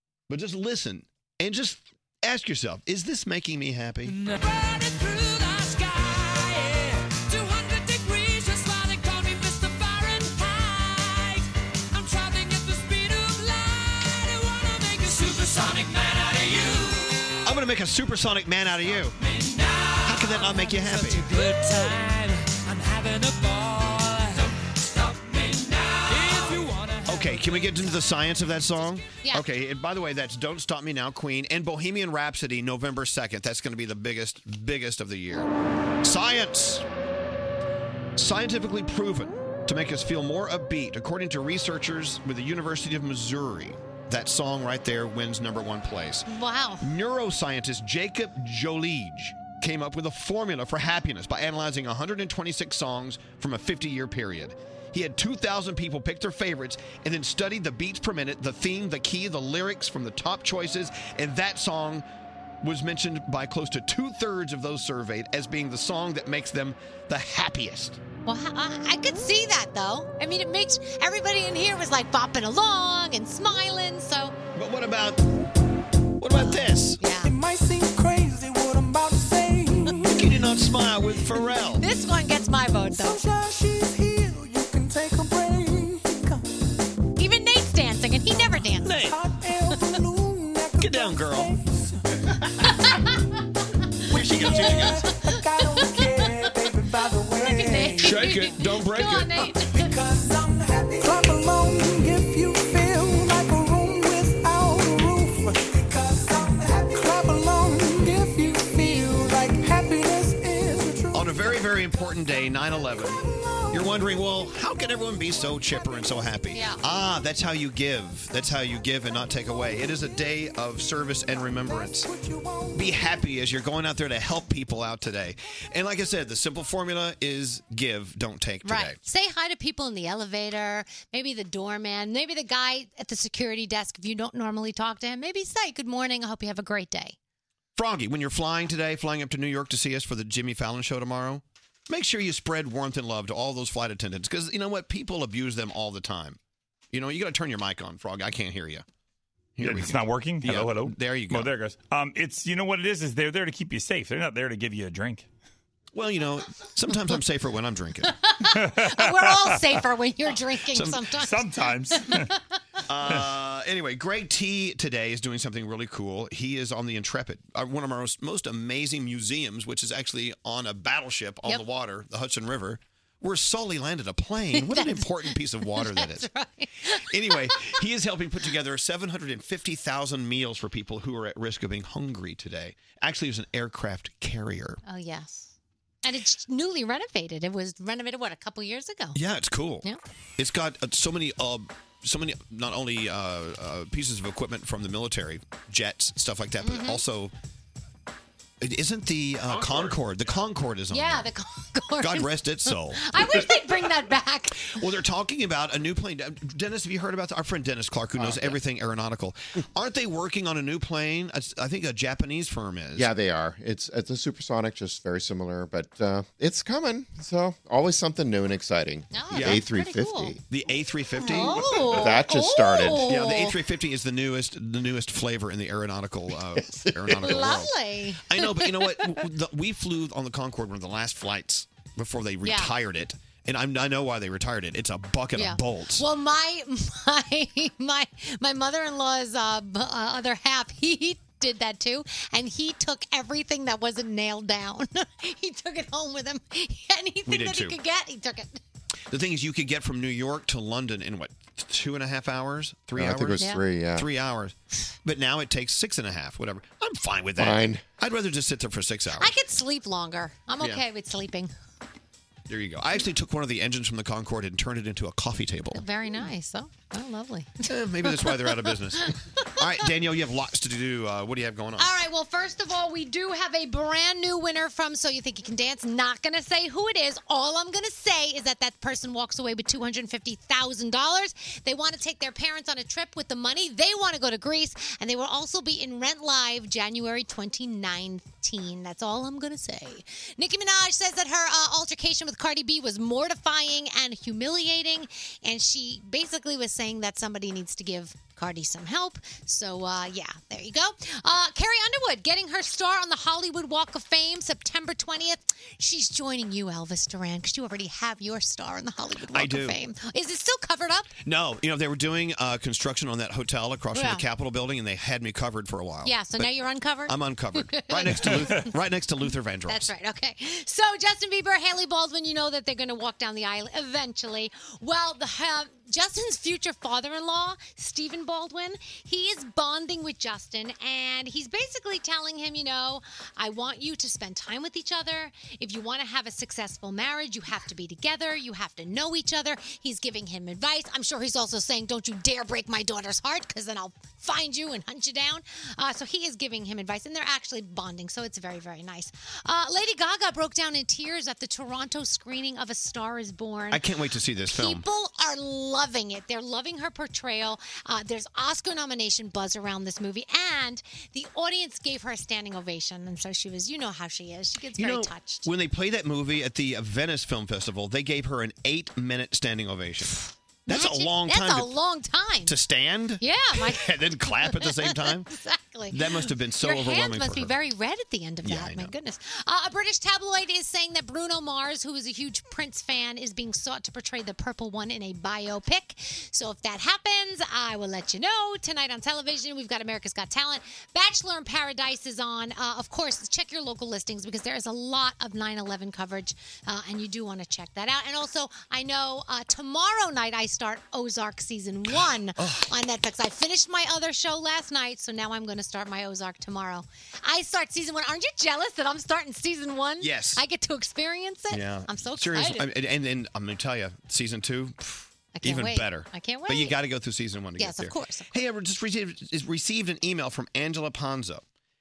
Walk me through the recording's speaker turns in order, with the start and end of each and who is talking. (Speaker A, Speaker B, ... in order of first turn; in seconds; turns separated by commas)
Speaker A: 0.3-4.2, Speaker B: 4.8-6.8, Speaker B: 7.3-10.1, Speaker B: 12.0-13.3, Speaker B: 14.7-16.8, Speaker A: 17.4-19.2, Speaker A: 20.0-21.3, Speaker B: 21.2-24.4, Speaker B: 26.1-27.1, Speaker A: 27.1-35.5, Speaker A: 36.0-36.9, Speaker A: 38.2-46.3, Speaker C: 46.3-46.9, Speaker A: 46.8-62.0, Speaker A: 62.6-68.0, Speaker C: 68.3-74.4, Speaker A: 74.5-75.2, Speaker A: 76.2-77.0, Speaker C: 76.3-77.3, Speaker B: 77.2-80.0, Speaker A: 80.1-81.8, Speaker C: 81.8-83.3, Speaker B: 82.9-86.4, Speaker C: 87.2-89.0, Speaker A: 88.8-89.2, Speaker B: 89.1-91.8, Speaker A: 90.8-91.6, Speaker A: 94.1-95.0, Speaker B: 94.3-94.8, Speaker C: 94.5-96.5, Speaker B: 95.3-98.1, Speaker C: 97.4-100.0, Speaker A: 98.0-99.3, Speaker B: 99.8-111.2, Speaker A: 111.1-122.1, Speaker C: 116.5-116.8, Speaker B: 122.2-122.7, Speaker A: 122.7-129.0, Speaker C: 128.7-137.2, Speaker A: 137.8-146.4, Speaker A: 146.9-148.8, Speaker A: 149.6-151.5, Speaker D: 149.6-155.3, Speaker A: 155.9-158.1, Speaker C: 158.2-162.3, Speaker D: 158.5-159.6, Speaker A: 160.7-161.1, Speaker D: 161.2-162.3, Speaker A: 162.9-176.3, Speaker C: 174.6-177.6, Speaker A: 176.9-184.8, Speaker C: 184.8-185.5, Speaker C: 186.0-189.2, Speaker A: 189.1-189.9, Speaker A: 190.4-197.3, Speaker C: 196.6-197.0, Speaker A: 198.6-201.3, Speaker E: 199.6-199.9, Speaker C: 200.9-204.8, Speaker A: 202.0-203.4, Speaker A: 204.7-213.1, Speaker E: 212.9-220.4, Speaker C: 219.1-220.4, Speaker A: 219.3-219.7, Speaker A: 220.5-222.2, Speaker C: 221.2-223.6, Speaker E: 221.8-223.1, Speaker A: 223.0-227.7, Speaker C: 227.1-229.2, Speaker A: 228.3-236.1, Speaker C: 232.4-232.7, Speaker C: 235.4-248.6, Speaker A: 247.3-247.8, Speaker A: 249.1-259.3, Speaker E: 252.9-254.1, Speaker C: 253.4-253.6, Speaker E: 257.4-257.8, Speaker C: 259.2-261.5, Speaker A: 262.5-265.8, Speaker C: 265.8-269.1, Speaker A: 267.7-271.9, Speaker C: 271.8-311.1, Speaker A: 309.3-309.8, Speaker A: 311.2-316.5, Speaker C: 313.9-314.2, Speaker C: 316.1-318.7, Speaker A: 317.1-319.9, Speaker C: 319.7-353.8, Speaker A: 353.7-354.9, Speaker C: 354.5-365.5, Speaker A: 364.8-371.7, Speaker C: 370.7-372.6, Speaker A: 372.4-375.3, Speaker C: 373.2-412.6, Speaker A: 375.9-377.5, Speaker A: 378.4-378.9, Speaker A: 401.9-402.7, Speaker A: 410.0-410.4, Speaker A: 411.5-421.4, Speaker C: 415.4-416.8, Speaker C: 417.6-418.3